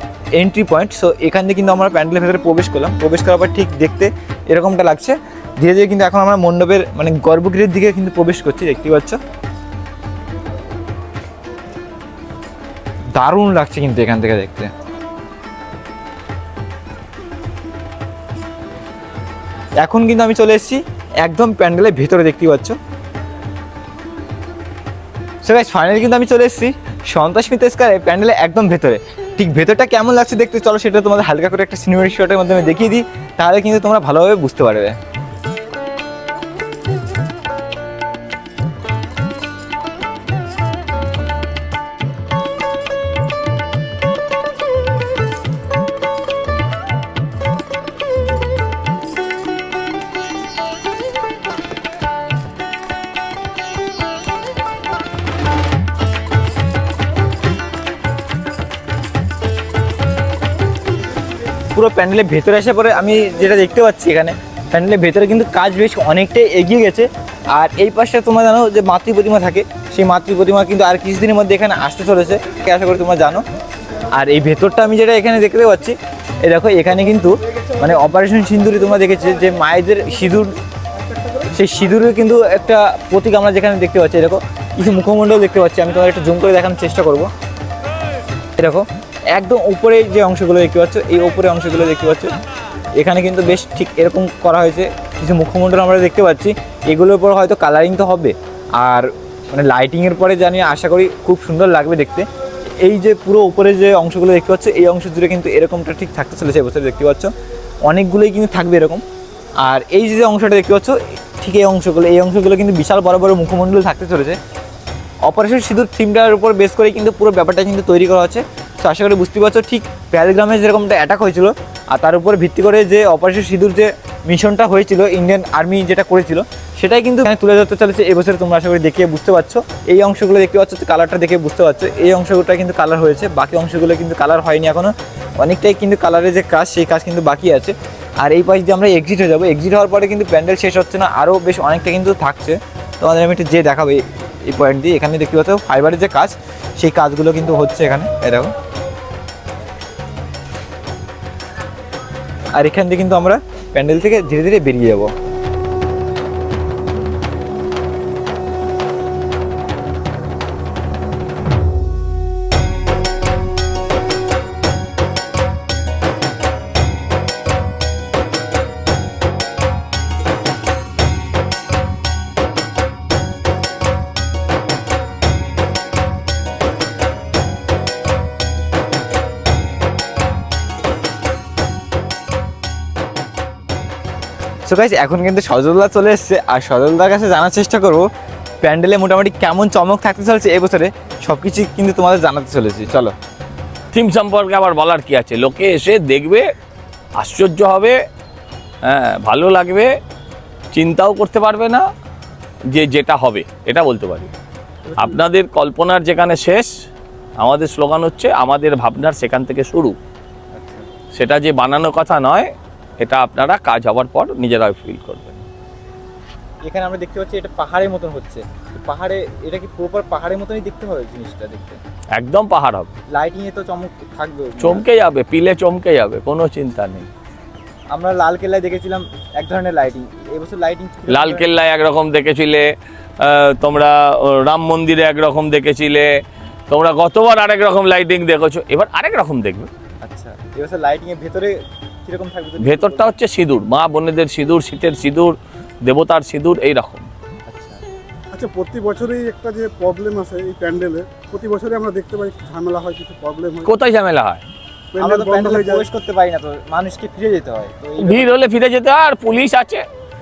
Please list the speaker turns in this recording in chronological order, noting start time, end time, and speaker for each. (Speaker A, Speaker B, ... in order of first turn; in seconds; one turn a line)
Speaker A: 0.4-9.2
Speaker A: 13.2-14.7
Speaker A: 19.8-22.8
Speaker A: 25.4-35.0
Speaker A: 61.7-73.4
Speaker A: 74.1-80.5
Speaker A: 81.5-87.3
Speaker A: 88.6-92.3
Speaker A: 93.0-102.3
Speaker A: 102.8-107.3
Speaker A: 107.9-109.0
Speaker A: 109.6-114.4
Speaker A: 115.3-148.5
Speaker A: 152.6-155.1
Speaker A: 184.7-188.1
Speaker A: 188.6-193.1
Speaker B: 193.9-196.5
Speaker B: 197.2-198.0
Speaker B: 198.8-199.9
Speaker B: 200.7-201.8
Speaker B: 202.7-204.3
Speaker A: 204.9-205.2
Speaker B: 205.0-206.7
Speaker B: 207.4-210.0
Speaker A: 210.6-210.9
Speaker B: 211.2-215.5
Speaker A: 216.6-221.8
Speaker B: 222.2-222.9
Speaker A: 223.1-224.9
Speaker B: 224.6-227.1
Speaker A: 227.9-231.5
Speaker B: 231.1-236.1
Speaker B: 236.7-239.7
Speaker A: 240.0-243.1
Speaker B: 242.6-247.1
Speaker A: 247.5-247.8
Speaker C: 248.3-253.7
Speaker B: 253.6-254.4
Speaker C: 254.9-255.8
Speaker A: 255.0-258.4
Speaker B: 258.0-259.9